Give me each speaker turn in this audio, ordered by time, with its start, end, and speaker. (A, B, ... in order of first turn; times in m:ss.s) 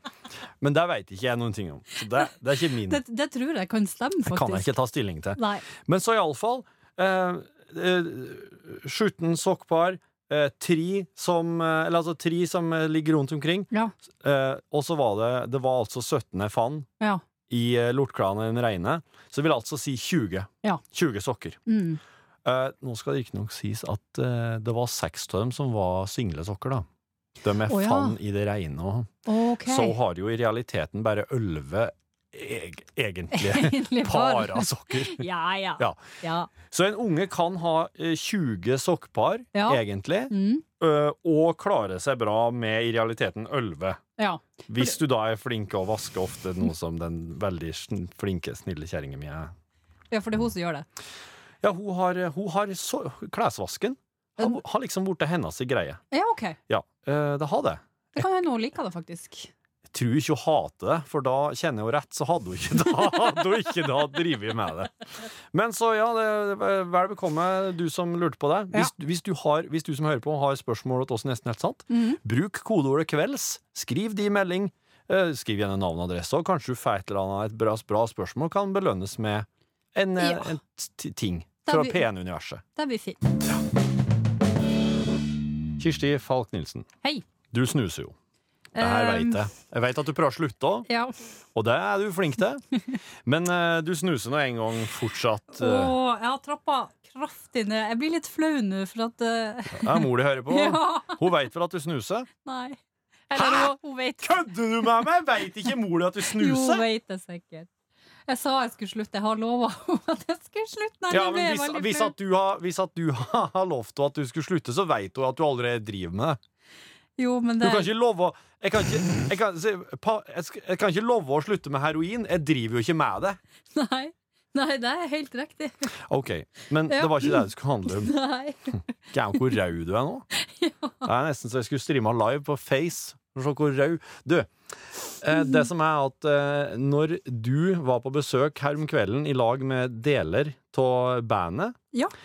0:00.6-0:03.0 A
0:02.8-0:04.7 B
0:04.2-0:16.9 A
0:05.3-0:05.6 B
0:17.5-0:21.6 A
0:21.7-0:22.0 B
0:22.4-0:26.8 A
0:27.4-0:35.2 A
0:27.6-0:28.2 B
0:29.2-0:30.0 B
0:33.3-0:36.5 B
0:35.8-0:36.0 A
0:36.6-0:44.0 A
0:39.5-0:40.6 B
0:44.2-0:45.0 B
0:44.7-0:49.5 A
0:50.1-0:50.8 B
0:51.6-0:56.0 A
0:56.1-0:56.6 B
0:56.7-0:58.2 A
0:58.1-0:59.5 B
0:59.9-1:04.9 A
1:05.5-1:22.6 A
1:11.9-1:12.2 B
1:20.2-1:20.6 B
1:21.6-1:22.0 B
1:22.7-1:23.2 B
1:25.8-1:26.8 A
1:27.5-1:28.1 A
1:28.7-1:29.5 B
1:28.8-1:30.9 A
1:30.8-1:31.2 B
1:31.5-1:32.6 A
1:33.2-1:35.9 A
1:35.5-1:41.3 B
1:39.8-1:42.3 A
1:42.4-1:42.8 B
1:43.3-1:45.0 B
1:43.3-1:46.8 A
1:46.3-1:47.7 B
1:48.3-1:52.1 B
1:51.1-1:56.4 A
1:57.2-1:57.9 B
1:57.6-2:03.4 A
2:03.7-2:06.0 B
2:06.1-2:08.1 A
2:06.8-2:08.9 B
2:09.1-2:10.3 A
2:10.3-2:11.1 B
2:11.0-2:14.5 A
2:15.2-2:21.8 A